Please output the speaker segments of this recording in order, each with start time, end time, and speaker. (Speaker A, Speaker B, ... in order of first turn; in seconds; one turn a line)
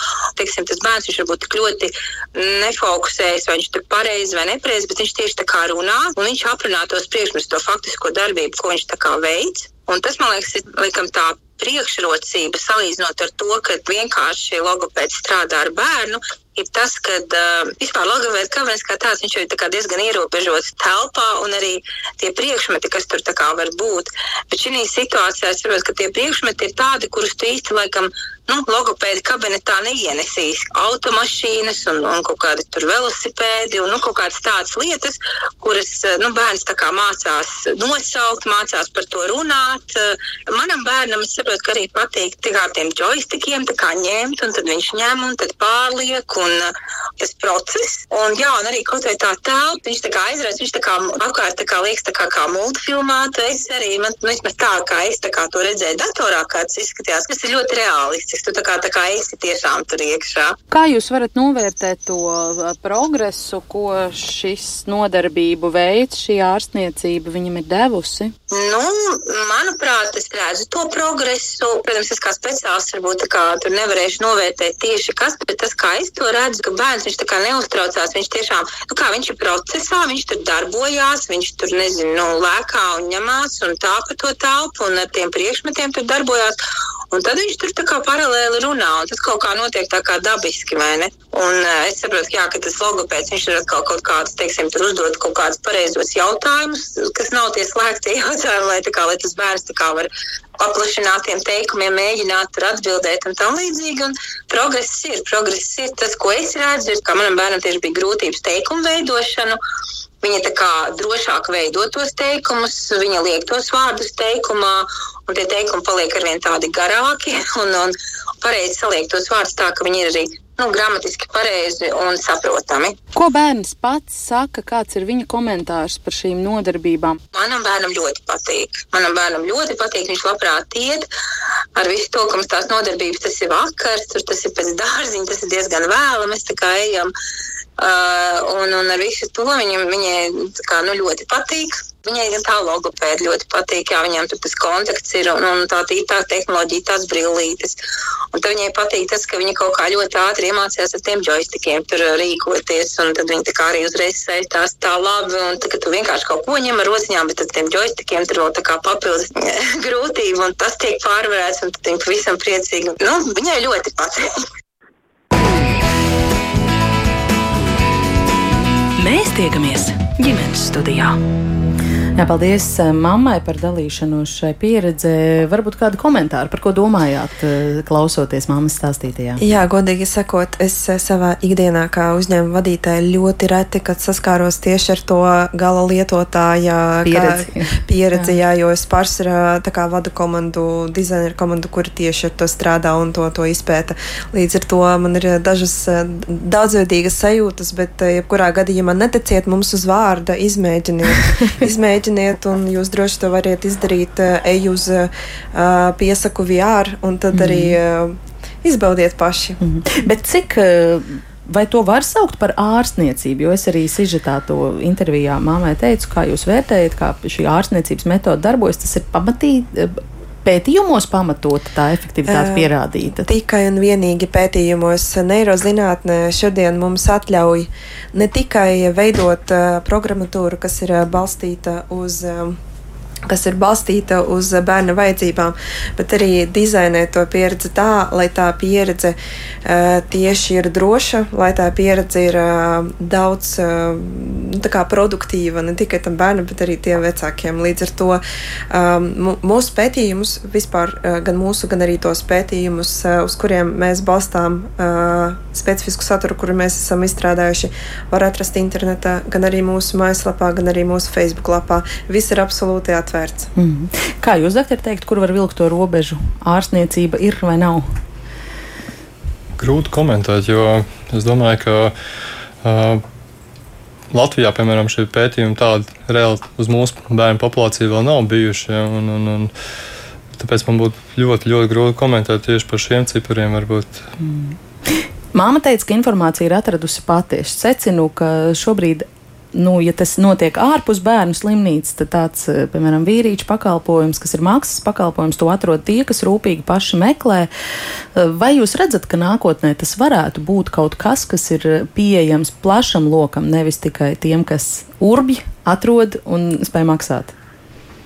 Speaker A: 0.3-60.6
Speaker B: 60.7-68.3
Speaker A: 68.5-86.6
Speaker A: 87.1-109.6
Speaker A: 110.2-123.0
Speaker B: 123.1-127.2
Speaker A: 127.3-131.1
Speaker A: 131.8-137.1
Speaker A: 137.8-147.8
Speaker A: 148.3-164.2
Speaker C: 169.0-171.2
Speaker B: 172.2-179.4
Speaker D: 179.4-209.6
Speaker B: 187.1-188.4
Speaker B: 207.3-207.8
Speaker B: 209.6-223.3
Speaker D: 222.3-232.6
Speaker D: 233.3-263.5
Speaker B: 263.6-267.9
Speaker E: 269.6-271.9
Speaker E: 272.6-273.0
Speaker E: 274.1-279.5
Speaker E: 280.4-284.1
Speaker B: 284.2-297.5
Speaker B: 298.1-307.3